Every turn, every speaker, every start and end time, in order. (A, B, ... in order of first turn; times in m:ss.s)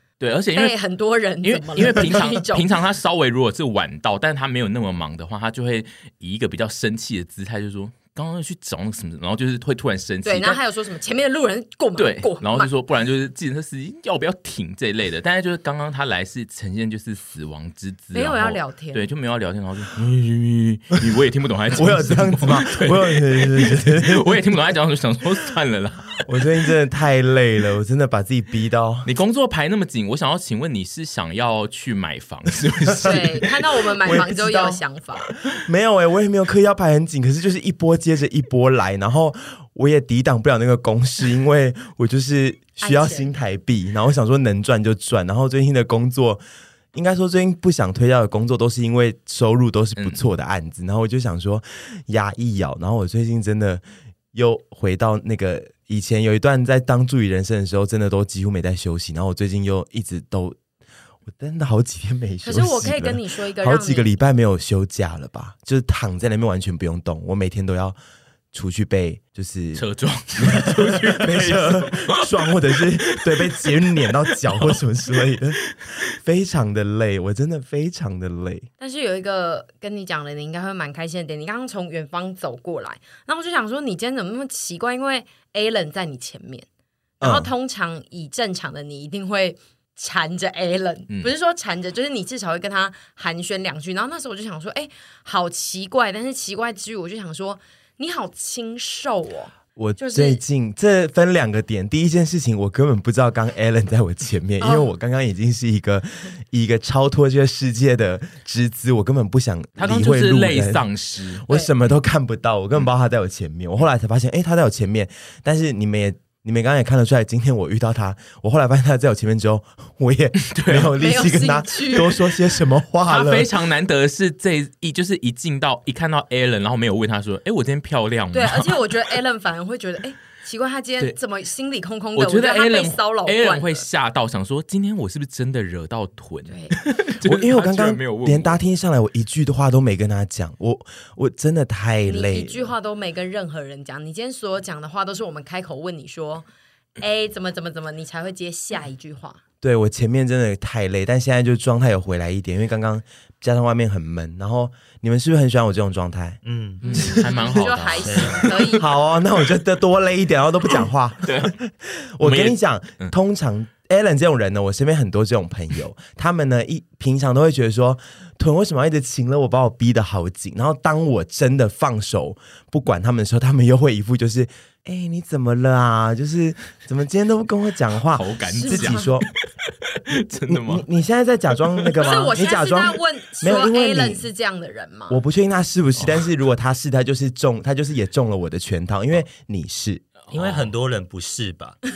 0:00.2-0:00.8 A
0:00.5-0:02.7 B
0:01.4-0:10.6 A
0:10.2-0:12.7 B
0:12.0-0:26.4 A
0:18.1-0:19.0 B
0:21.7-0:24.4 C
0:26.2-0:29.1 C
0:29.0-0:33.5 A
0:32.9-0:33.2 C
0:33.0-0:35.3 B
0:34.0-0:34.8 C
0:35.5-0:46.4 C
0:42.8-0:43.3 B
0:46.9-0:53.8 C
0:50.0-0:50.2 A
0:54.3-1:00.6 C
1:01.3-1:08.0 C
1:02.4-1:04.1 B
1:08.5-1:09.8 C
1:09.7-1:13.8 A
1:10.4-1:18.7 C
1:14.5-1:14.8 A
1:18.8-1:26.6 B
1:27.2-1:27.5 C
1:27.2-1:40.4 B
1:39.8-1:50.8 C
1:44.6-1:44.9 B
1:49.8-1:51.4 A
1:51.4-2:03.5 C
2:00.4-2:00.9 A
2:00.9-2:02.2 B
2:03.0-2:09.2 A
2:08.3-2:13.8 B
2:12.2-2:18.6 A
2:16.5-2:16.8 B
2:17.2-2:22.7 C
2:22.0-2:26.5 B
2:27.0-2:29.4 B
2:29.6-2:36.4 C
2:36.4-2:37.0 D
2:36.8-2:38.6 A
2:36.8-2:38.8 B
2:36.9-2:37.5 C
2:37.9-2:38.5 D
2:38.7-2:59.2 C
2:41.2-2:41.6 A
2:42.2-2:43.1 A
2:58.0-3:00.8 A
2:58.5-2:59.2 B
3:00.5-3:04.2 C
3:01.7-3:02.2 A
3:02.0-3:05.2 B
3:05.1-3:10.0 C
3:06.0-3:06.3 A
3:10.2-3:10.7 A
3:10.3-3:11.8 D